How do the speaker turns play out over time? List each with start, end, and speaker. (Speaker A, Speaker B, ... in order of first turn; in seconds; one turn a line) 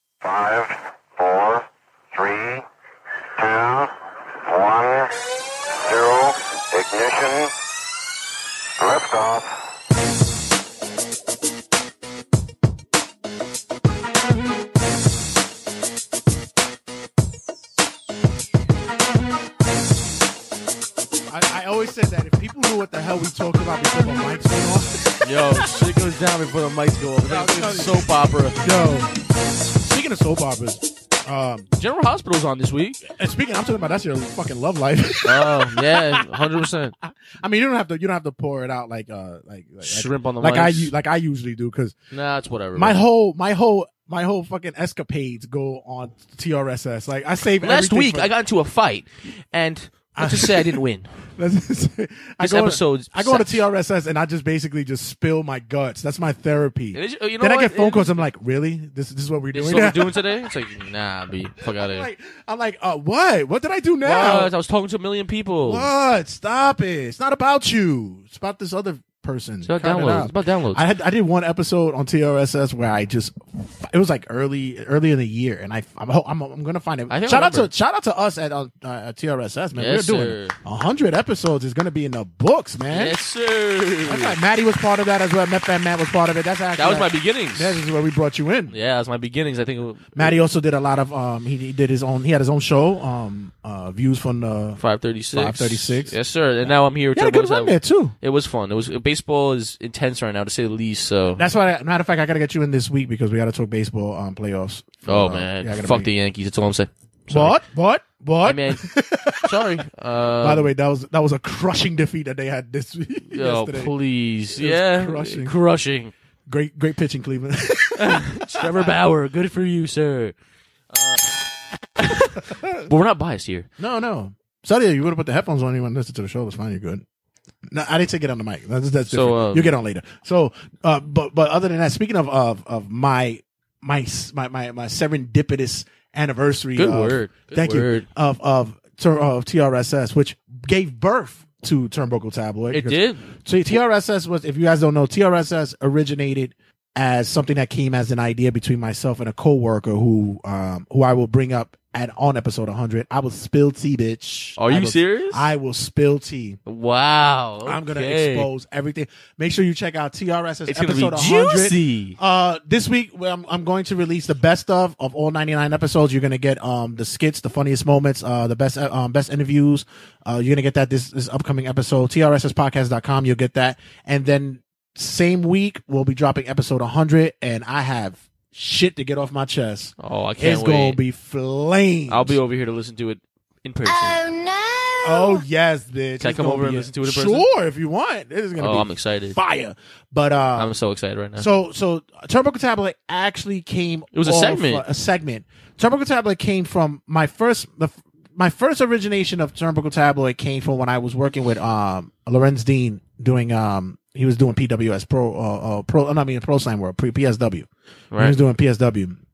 Speaker A: 1.3-1.6
Speaker A: 8.8-9.4
Speaker B: 21.3-25.1
Speaker C: 25.2-28.7
Speaker B: 27.2-28.1
Speaker B: 28.6-29.1
Speaker B: 29.8-31.7
Speaker C: 31.8-33.0
Speaker B: 33.1-42.0
Speaker C: 35.2-37.0
Speaker C: 39.8-40.9
Speaker C: 42.1-43.0
Speaker B: 42.7-48.3
Speaker C: 47.6-51.2
Speaker B: 50.2-60.3
Speaker C: 52.4-53.5
Speaker C: 56.9-58.2
Speaker C: 59.5-62.1
Speaker B: 61.6-64.5
Speaker C: 64.0-65.9
Speaker B: 65.6-83.2
Speaker C: 69.7-70.8
Speaker C: 77.1-77.7
Speaker C: 79.8-80.6
Speaker C: 82.9-84.4
Speaker B: 84.1-88.8
Speaker C: 86.8-87.8
Speaker C: 88.7-90.4
Speaker B: 90.2-94.8
Speaker C: 94.8-101.4
Speaker B: 95.3-96.1
Speaker B: 96.6-98.2
Speaker B: 101.4-106.1
Speaker C: 105.1-107.6
Speaker B: 107.3-109.8
Speaker C: 108.4-108.9
Speaker C: 109.4-110.7
Speaker B: 110.4-113.9
Speaker C: 113.3-116.1
Speaker B: 114.5-115.5
Speaker B: 116.5-118.9
Speaker C: 118.0-120.3
Speaker C: 120.9-121.3
Speaker C: 122.0-123.7
Speaker B: 122.5-122.8
Speaker B: 123.8-127.0
Speaker B: 127.7-156.6
Speaker C: 129.1-129.7
Speaker C: 136.8-138.1
Speaker C: 142.7-143.3
Speaker C: 154.6-155.5
Speaker C: 156.7-158.5
Speaker B: 157.7-182.4
Speaker C: 160.7-162.2
Speaker C: 180.0-181.0
Speaker C: 182.1-184.3
Speaker A: 184.2-185.2
Speaker B: 185.0-190.7
Speaker C: 186.2-187.5
Speaker C: 188.6-189.4
Speaker C: 190.6-191.5
Speaker B: 191.4-209.2
Speaker C: 194.1-194.9
Speaker C: 208.1-208.4